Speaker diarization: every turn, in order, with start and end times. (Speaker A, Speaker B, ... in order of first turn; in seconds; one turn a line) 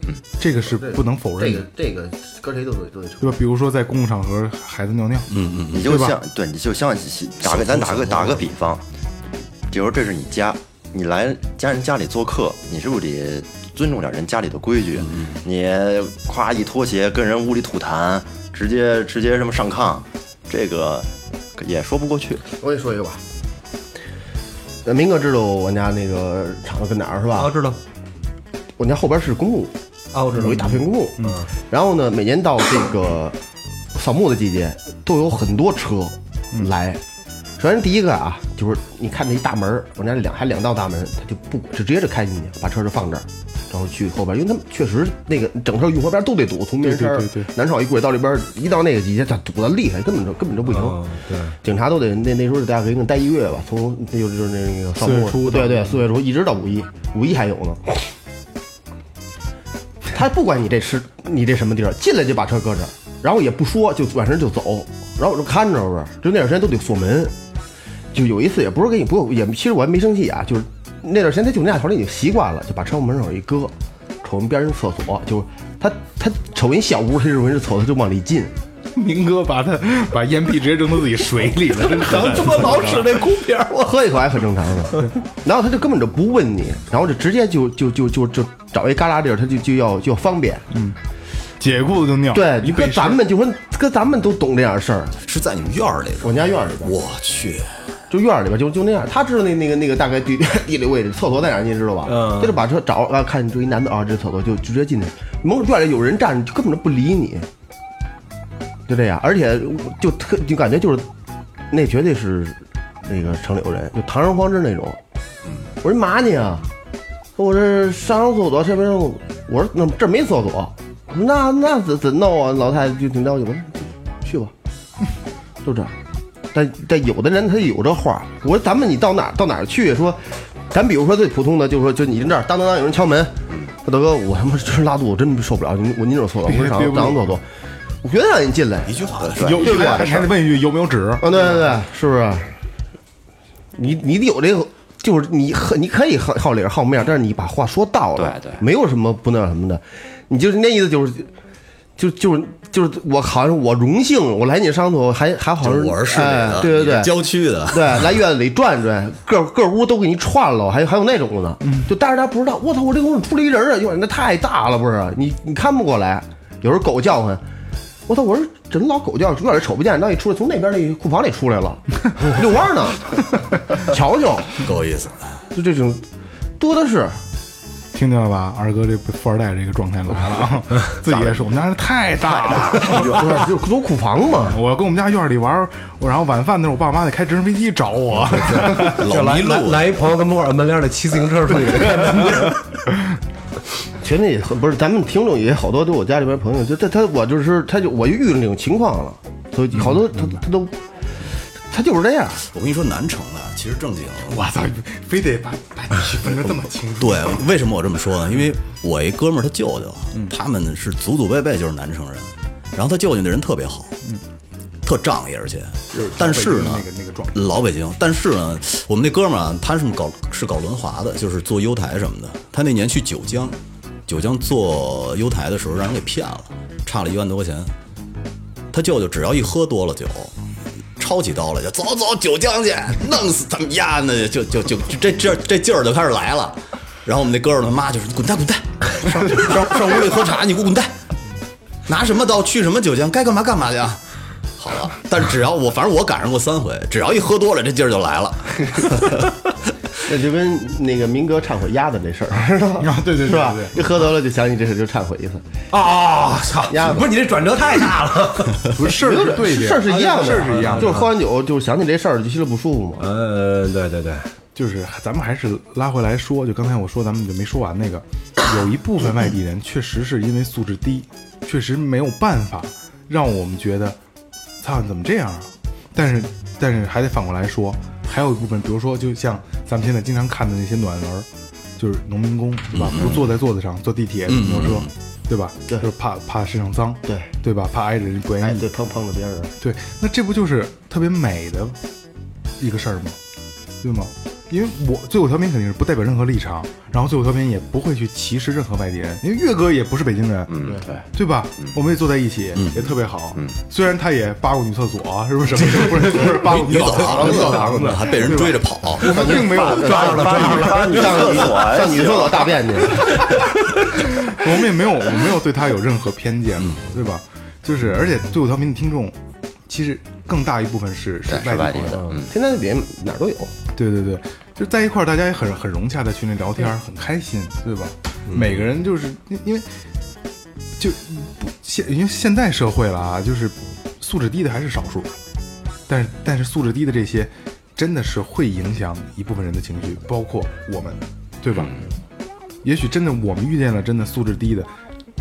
Speaker A: 0.4-1.7
Speaker B: 0.6-3.4
Speaker A: 3.2-6.2
Speaker C: 5.3-6.0
Speaker D: 5.7-8.8
Speaker C: 7.4-8.5
Speaker D: 9.7-22.4
Speaker C: 14.9-15.4
Speaker B: 22.5-23.2
Speaker B: 24.8-27.5
Speaker E: 27.3-27.8
Speaker B: 28.8-29.7
Speaker E: 30.1-31.5
Speaker B: 30.3-33.4
Speaker B: 33.9-37.0
Speaker B: 37.6-51.0
Speaker A: 46.8-47.5
Speaker E: 50.6-51.5
Speaker B: 51.6-58.1
Speaker A: 55.0-56.0
Speaker B: 60.1-67.3
Speaker B: 68.1-78.5
Speaker A: 78.9-83.1
Speaker E: 81.8-84.0
Speaker B: 82.5-83.0
Speaker B: 83.8-90.7
Speaker A: 90.7-91.0
Speaker A: 91.6-93.2
Speaker B: 92.3-95.1
Speaker C: 95.2-97.8
Speaker B: 96.2-96.9
Speaker B: 98.1-107.5
Speaker E: 102.0-102.6
Speaker B: 108.9-111.1
Speaker B: 111.7-115.0
Speaker B: 115.8-116.7
Speaker B: 117.3-124.5
Speaker B: 125.6-126.0
Speaker B: 126.5-137.4
Speaker A: 136.4-137.4
Speaker B: 138.0-140.2
Speaker C: 138.8-140.1
Speaker D: 139.2-140.0
Speaker A: 139.4-141.4
Speaker B: 141.2-142.5
Speaker B: 143.7-151.3
Speaker D: 148.2-148.6
Speaker B: 152.0-167.4
Speaker C: 155.6-158.2
Speaker A: 161.6-161.9
Speaker B: 168.1-174.7
Speaker C: 174.6-175.4
Speaker B: 175.5-176.0
Speaker B: 176.6-177.2
Speaker A: 177.9-183.2
Speaker B: 182.8-184.6
Speaker A: 184.4-189.1
Speaker C: 188.4-189.9
Speaker E: 188.7-192.6
Speaker A: 192.0-192.4
Speaker B: 194.0-200.8
Speaker A: 199.8-200.4
Speaker B: 201.7-202.4
Speaker C: 202.4-204.5
Speaker A: 204.3-207.4
Speaker C: 207.0-214.0
Speaker C: 214.8-227.7
Speaker A: 215.9-217.5
Speaker C: 228.7-230.3
Speaker C: 231.0-240.9
Speaker C: 241.9-244.0
Speaker C: 244.6-249.3
Speaker B: 250.1-255.4
Speaker A: 252.8-253.8
Speaker E: 255.7-258.8
Speaker B: 256.7-257.1
Speaker A: 258.7-261.1
Speaker B: 258.9-263.0
Speaker E: 259.9-261.1
Speaker E: 263.0-264.3
Speaker A: 264.5-274.0
Speaker A: 274.6-288.7
Speaker C: 282.7-283.4
Speaker C: 284.3-284.9
Speaker B: 287.1-287.3
Speaker B: 288.4-289.5
Speaker A: 289.6-291.8
Speaker A: 292.6-293.2
Speaker A: 293.8-310.7
Speaker D: 300.5-301.0
Speaker C: 302.5-302.9
Speaker C: 305.8-309.3
Speaker E: 306.7-308.1
Speaker B: 309.0-313.3
Speaker E: 309.0-311.7
Speaker D: 309.8-312.7
Speaker E: 313.2-313.8
Speaker A: 313.9-322.1
Speaker C: 316.6-316.8
Speaker D: 321.3-322.3
Speaker B: 322.2-323.5
Speaker A: 323.7-329.7
Speaker A: 330.8-335.1
Speaker A: 335.9-341.7
Speaker D: 341.6-341.8
Speaker A: 342.6-344.7